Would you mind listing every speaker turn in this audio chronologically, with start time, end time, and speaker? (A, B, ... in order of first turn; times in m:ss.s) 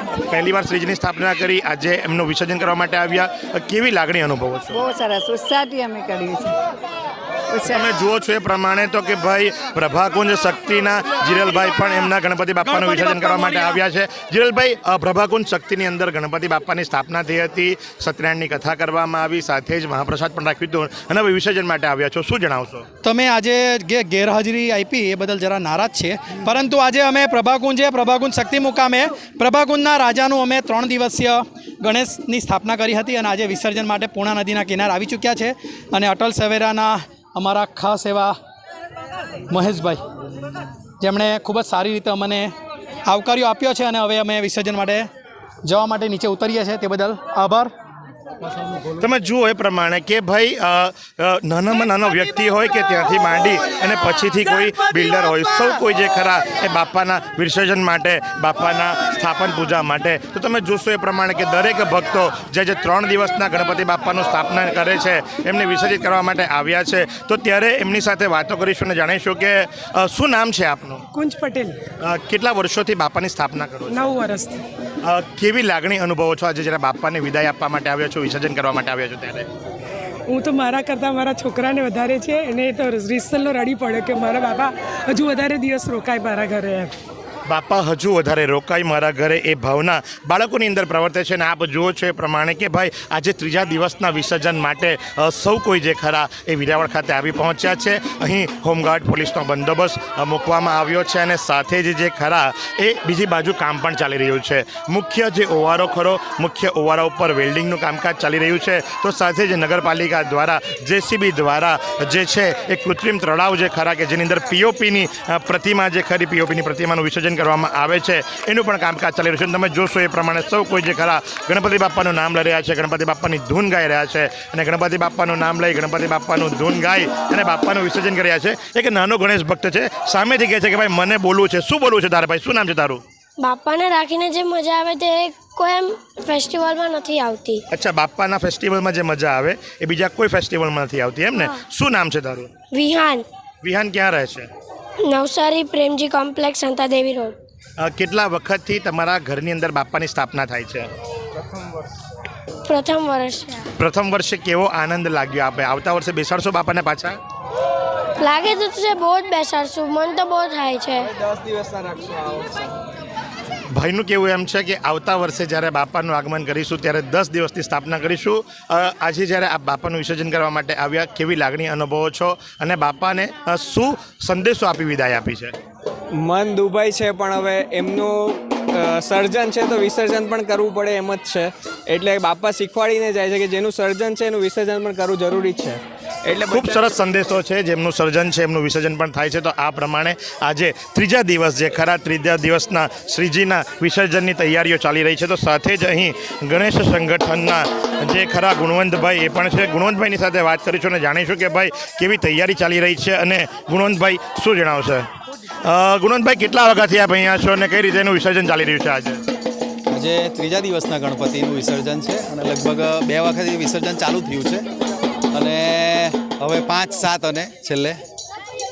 0:00.3-0:04.8 A
0:04.7-0:06.5 B
0:07.5-0:07.8 B
0:07.7-0:22.9 A
0:23.0-0:38.4 C
0:39.5-0:40.0 C
0:41.0-0:42.5 C
0:43.1-0:45.1 C
0:45.6-0:47.7 C
0:49.0-1:11.0 A
1:11.1-1:11.8 D
1:12.0-1:14.2 A
1:13.9-1:14.6 D
1:15.0-1:19.5 A
1:20.3-1:26.9 D
1:27.5-2:13.0 A
2:13.4-2:17.6 E
2:17.7-2:22.5 A
2:22.7-2:23.2 E
2:23.6-2:24.5 A
2:25.1-2:27.4 E
2:27.8-2:30.9 A
2:32.7-2:33.7 E
2:33.8-2:37.2 A
2:38.2-2:41.1 E
2:41.2-2:42.7 F
2:43.7-2:55.6 A
2:56.1-3:06.9 F
3:06.5-3:25.1 A
3:25.6-3:29.2 A
3:29.9-3:34.7 G
3:35.3-3:38.0 G